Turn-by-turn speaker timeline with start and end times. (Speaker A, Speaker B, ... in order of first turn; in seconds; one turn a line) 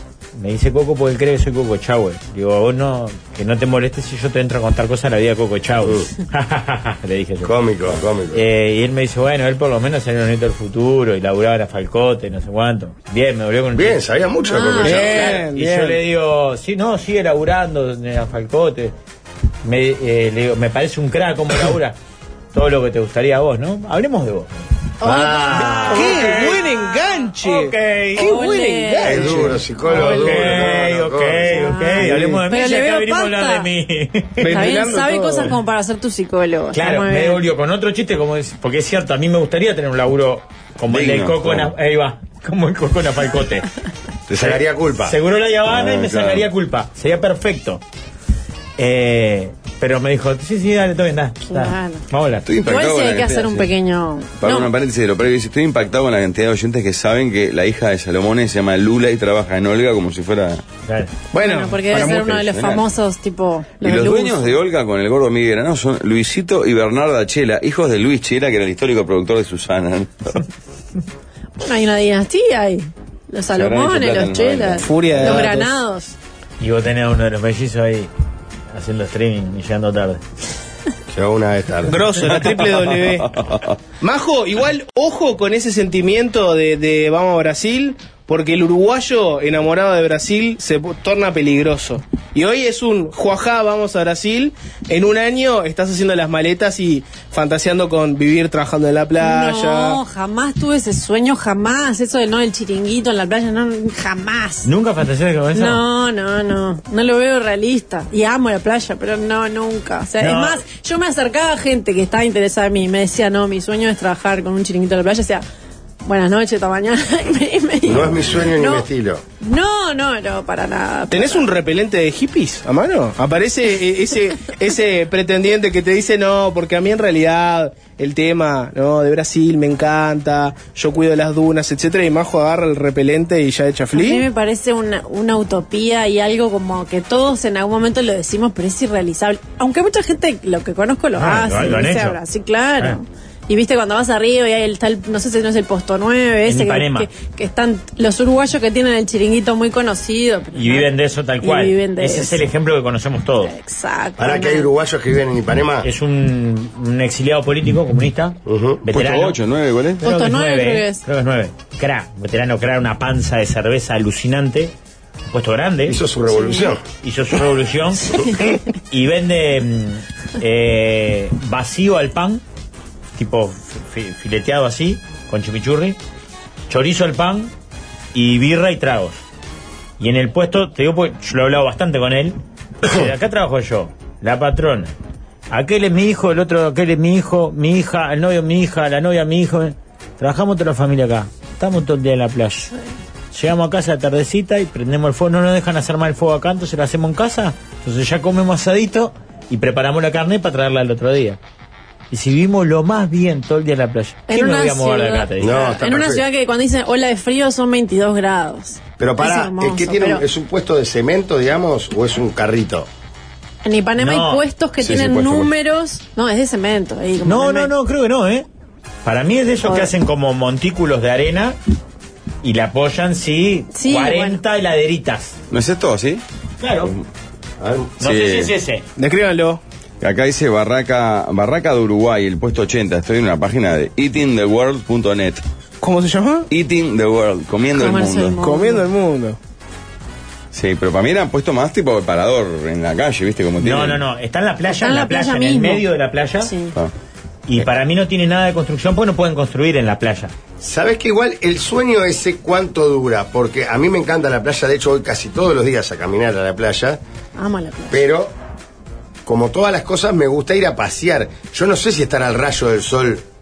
Speaker A: 0.4-7.5
Speaker B: 7.4-8.4
Speaker A: 8.3-14.0
Speaker B: 13.8-15.4
Speaker C: 14.4-15.3
Speaker D: 14.8-16.0
Speaker A: 14.9-18.9
Speaker A: 19.6-22.0
Speaker A: 22.5-24.6
Speaker C: 25.0-26.5
Speaker B: 25.0-26.2
Speaker A: 25.5-26.7
Speaker D: 25.9-29.6
Speaker A: 27.4-28.3
Speaker C: 28.2-29.5
Speaker B: 29.0-31.9
Speaker A: 29.9-34.8
Speaker C: 31.5-33.7
Speaker D: 32.0-32.4
Speaker D: 34.4-35.5
Speaker C: 34.5-37.4
Speaker A: 36.7-43.7
Speaker E: 40.9-41.7
Speaker B: 44.3-45.2
Speaker A: 44.4-47.8
Speaker E: 45.7-46.5
Speaker A: 48.8-52.5
Speaker C: 51.5-52.0
Speaker E: 52.5-53.7
Speaker C: 52.6-54.7
Speaker E: 54.4-60.6
Speaker A: 60.9-61.1
Speaker D: 61.3-62.4
Speaker C: 61.4-64.5
Speaker E: 62.0-62.8
Speaker E: 63.8-70.5
Speaker C: 71.6-76.2
Speaker E: 73.5-75.5
Speaker D: 74.8-75.8
Speaker A: 76.6-78.1
Speaker A: 78.7-80.2
Speaker B: 81.1-82.0
Speaker D: 81.8-83.3
Speaker E: 82.3-83.7
Speaker D: 84.0-100.0
Speaker C: 99.2-104.7
Speaker A: 104.6-105.8
Speaker C: 105.5-115.4
Speaker A: 110.2-110.6
Speaker C: 116.0-118.9
Speaker B: 117.8-119.2
Speaker C: 119.4-121.5
Speaker D: 121.1-134.2
Speaker C: 133.9-152.4
Speaker A: 141.2-142.2
Speaker A: 146.5-147.1
Speaker A: 150.5-153.5
Speaker C: 153.4-154.7
Speaker B: 154.2-155.9
Speaker A: 155.8-159.4
Speaker B: 158.4-158.8
Speaker E: 158.9-160.0
Speaker C: 160.0-161.0
Speaker A: 160.0-164.7
Speaker A: 165.3-166.0
Speaker B: 165.9-166.8
Speaker C: 166.4-166.7
Speaker A: 167.0-168.2
Speaker A: 168.9-172.4
Speaker A: 173.2-176.0
Speaker A: 176.7-177.5
Speaker A: 178.1-179.2
Speaker A: 180.0-184.9
Speaker A: 185.5-192.7
Speaker A: 193.3-201.4
Speaker A: 202.1-205.7
Speaker C: 204.3-210.2
Speaker B: 205.4-206.2
Speaker B: 209.0-212.9
Speaker C: 213.6-217.7
Speaker A: 214.0-214.4
Speaker E: 214.8-215.5
Speaker A: 217.2-218.5
Speaker A: 219.1-221.6
Speaker C: 219.6-219.9
Speaker A: 222.4-225.3
Speaker C: 223.8-224.4
Speaker E: 225.5-226.2
Speaker A: 226.6-226.9
Speaker B: 227.6-227.9
Speaker A: 228.0-228.8
Speaker E: 228.0-228.5
Speaker D: 229.0-229.6
Speaker E: 230.0-235.4
Speaker D: 235.8-236.5
Speaker E: 236.5-238.4
Speaker C: 237.7-238.9
Speaker D: 238.4-239.4
Speaker E: 240.5-244.0
Speaker A: 243.6-246.5
Speaker C: 244.7-245.9
Speaker C: 246.4-246.8
Speaker A: 247.5-250.3
Speaker B: 250.6-257.0
Speaker C: 257.4-258.0
Speaker B: 257.9-258.3
Speaker B: 259.3-263.2